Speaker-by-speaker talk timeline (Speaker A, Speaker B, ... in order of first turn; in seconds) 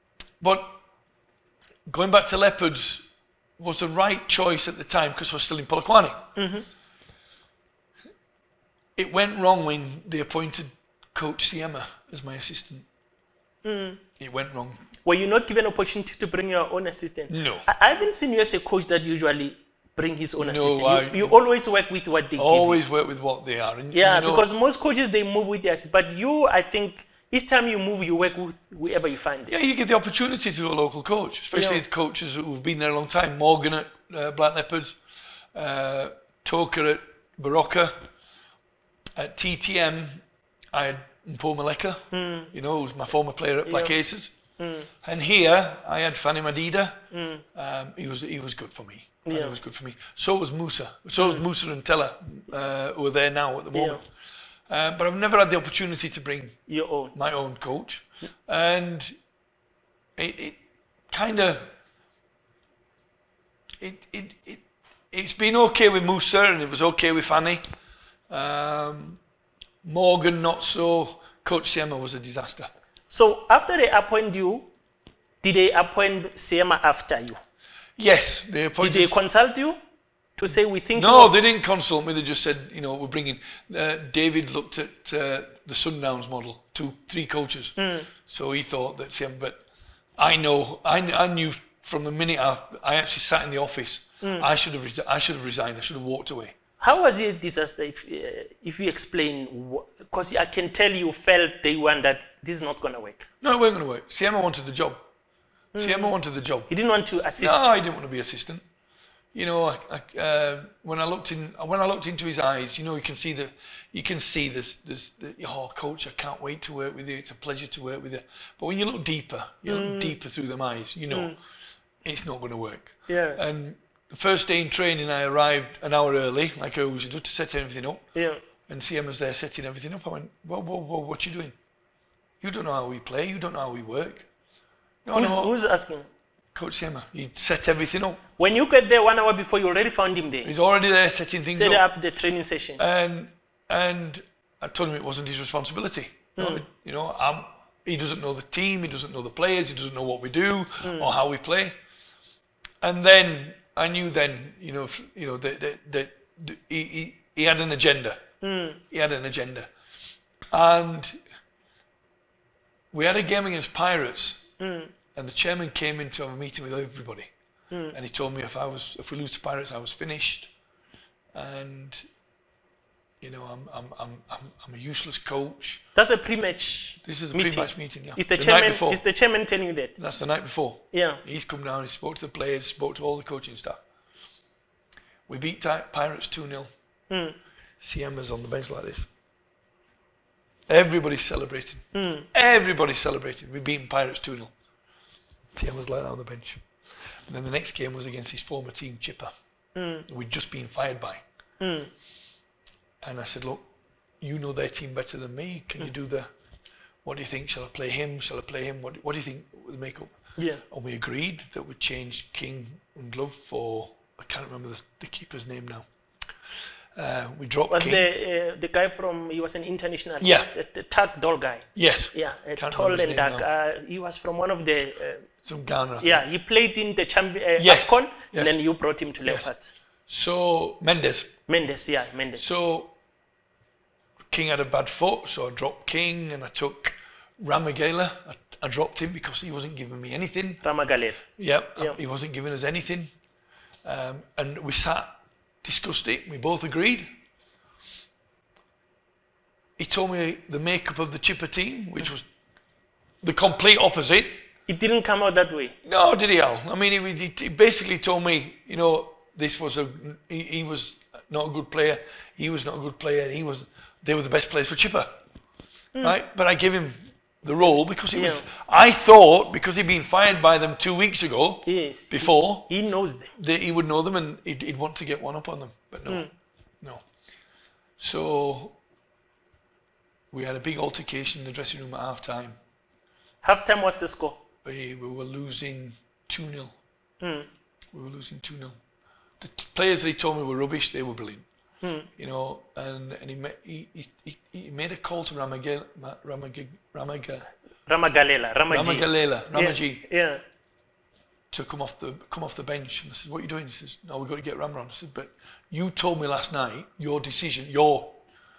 Speaker A: 0.4-0.8, 1.9-3.0, 3.6-6.2, 9.0-12.9, 14.2-14.8, 17.3-17.7, 20.4-21.4, 22.4-24.5, 29.5-35.0, 35.5-38.1, 39.2-44.3, 45.0-54.0, 54.7-56.6, 57.1-59.1, 60.2-61.7, 63.8-67.7, 68.3-69.2, 69.8-72.7, 78.0-79.1, 80.9-89.6, 90.2-96.5, 103.4-105.0, 105.7-106.7, 107.4-108.6, 109.3-121.3, 122.0-128.0, 128.7-131.5, 132.4-134.3, 135.0-135.5, 136.5-138.2, 140.4-141.8, 142.8-151.7, 152.8-158.2, 158.9-159.7, 160.5-161.2, 162.9-164.5, 165.1-167.3, 167.9-170.5, 171.3-172.0, 173.2-175.8, 177.0-179.0, 180.0-183.8, 185.3-186.7, 187.8-189.1, 190.7-194.5, 195.5-196.6, 197.3-199.3, 200.1-201.2, 203.0-203.6, 204.2-206.3, 207.0-215.8, 216.9-218.0, 220.2-220.5, 221.7-223.4, 225.4-226.2, 227.6-228.6, 229.2-229.5, 230.1-231.4, 232.4-233.0, 234.3-240.6, 241.4-243.1, 243.8-247.1, 249.8-252.2, 253.2-254.4, 255.8-265.1, 266.0-272.7, 273.3-276.3, 278.0-278.8, 280.3-282.6, 284.6-286.8, 287.9-288.8, 289.4-291.4, 292.2-297.5, 298.7-300.0, 301.5-308.2
Speaker B: 6.3-6.6, 13.6-14.0, 15.0-22.8, 23.9-29.5, 31.5-31.8, 42.1-42.5, 43.6-43.9, 44.6-44.9, 47.1-47.4, 49.3-49.6, 51.2-51.4, 53.7-54.0, 56.7-57.1, 73.1-74.7, 75.4-77.4, 78.8-79.8, 80.4-81.4, 87.8-88.1, 94.2-94.5, 96.8-103.2, 105.7-106.1, 106.7-107.7, 119.7-120.2, 121.1-121.4, 123.1-123.4, 128.1-128.4, 135.1-136.1, 138.4-140.5, 141.5-142.8, 146.4-146.6, 150.8-151.1, 158.4-158.8, 164.6-164.9, 167.7-167.9, 175.9-180.0, 180.9-181.2, 187.1-187.4, 191.9-192.3, 199.8-200.1, 201.6-201.9, 210.3-210.6, 217.7-225.3, 226.0-229.7, 231.5-232.4, 240.6-241.2, 254.7-255.8, 268.1-268.4, 271.6-273.3, 283.4-284.4, 287.2-287.5, 291.8-292.1, 297.9-300.4